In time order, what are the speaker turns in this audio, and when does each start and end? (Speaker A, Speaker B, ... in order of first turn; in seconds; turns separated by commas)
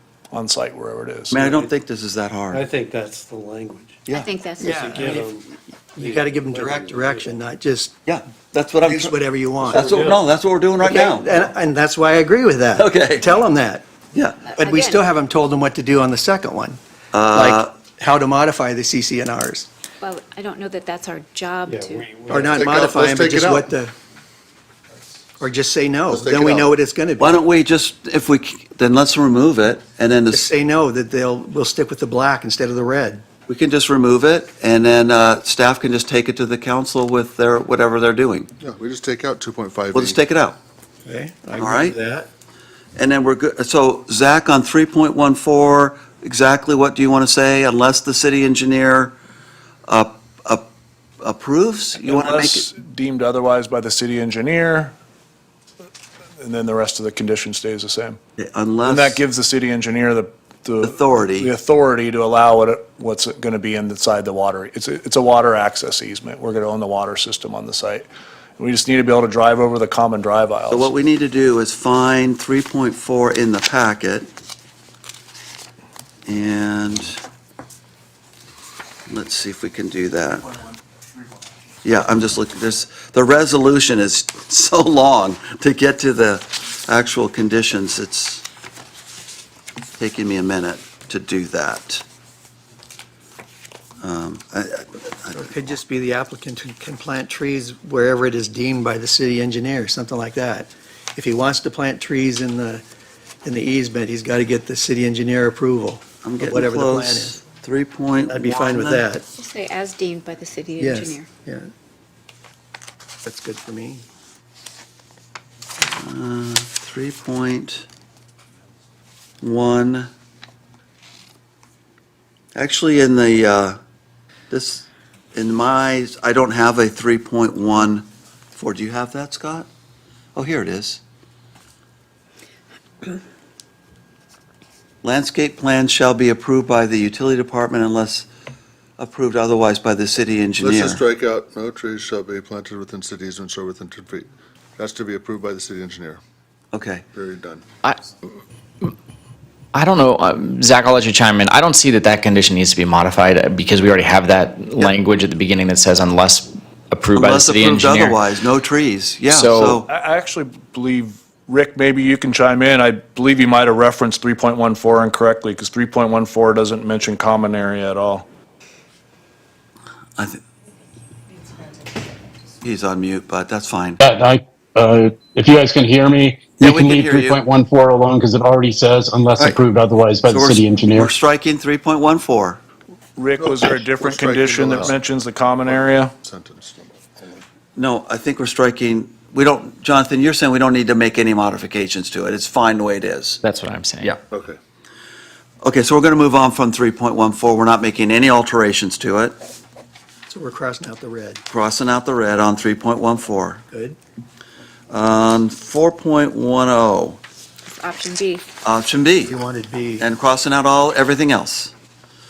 Speaker A: 0.3-1.5, Speaker B: 1.3-2.6, Speaker C: 1.4-1.7, Speaker C: 2.5-4.0, Speaker D: 4.1-4.9, Speaker E: 4.6-5.3, Speaker C: 4.6-7.4, Speaker E: 6.0-7.9, Speaker B: 8.1-11.5, Speaker E: 8.8-10.0, Speaker C: 9.7-10.2, Speaker E: 10.8-13.9, Speaker B: 12.8-13.5, Speaker B: 14.1-14.4, Speaker D: 14.4-15.1, Speaker E: 14.6-16.8, Speaker B: 17.1-17.7, Speaker E: 17.3-19.7, Speaker D: 20.0-22.2, Speaker C: 21.7-22.7, Speaker E: 22.3-23.9, Speaker F: 22.5-23.7, Speaker E: 25.4-27.4, Speaker F: 26.1-26.8, Speaker B: 27.2-30.5, Speaker E: 30.3-33.2, Speaker B: 33.5-38.5, Speaker F: 38.6-40.2, Speaker B: 39.9-40.6, Speaker E: 41.0-42.3, Speaker B: 41.6-42.0, Speaker B: 43.0-49.2, Speaker B: 49.9-50.7, Speaker B: 51.2-52.7, Speaker A: 52.0-55.0, Speaker A: 56.4-58.2, Speaker B: 58.4-59.2, Speaker A: 58.8-68.1, Speaker B: 60.8-61.5, Speaker A: 68.6-70.9, Speaker B: 70.7-74.3, Speaker B: 76.3-77.2, Speaker B: 79.1-80.5, Speaker B: 81.8-88.4, Speaker B: 90.0-92.0, Speaker B: 94.0-95.5, Speaker E: 95.3-102.8, Speaker E: 103.4-107.4, Speaker B: 106.2-109.1, Speaker E: 108.3-109.2, Speaker D: 109.3-111.3, Speaker E: 110.8-111.7, Speaker E: 113.2-114.0, Speaker B: 116.0-117.9, Speaker B: 119.4-120.1, Speaker B: 122.5-123.8, Speaker B: 124.5-129.7, Speaker B: 130.3-131.0, Speaker B: 135.0-138.2, Speaker B: 139.0-141.0, Speaker F: 140.6-146.2, Speaker B: 146.7-147.0, Speaker F: 147.1-147.6, Speaker G: 149.7-158.2, Speaker B: 157.2-159.9, Speaker G: 159.3-159.8, Speaker A: 159.9-168.2, Speaker B: 170.2-170.4, Speaker B: 172.6-174.0, Speaker H: 174.0-181.1, Speaker B: 176.6-177.4, Speaker B: 180.3-182.6, Speaker A: 183.2-186.1, Speaker F: 183.4-185.0, Speaker F: 185.7-187.4, Speaker B: 187.8-193.4, Speaker G: 193.4-194.2, Speaker F: 194.3-194.6, Speaker B: 195.6-199.4, Speaker E: 200.3-201.4, Speaker B: 201.5-203.6, Speaker E: 203.7-204.0, Speaker B: 204.9-207.2, Speaker D: 207.7-208.4, Speaker B: 208.6-209.4, Speaker E: 209.3-210.0, Speaker B: 210.0-211.7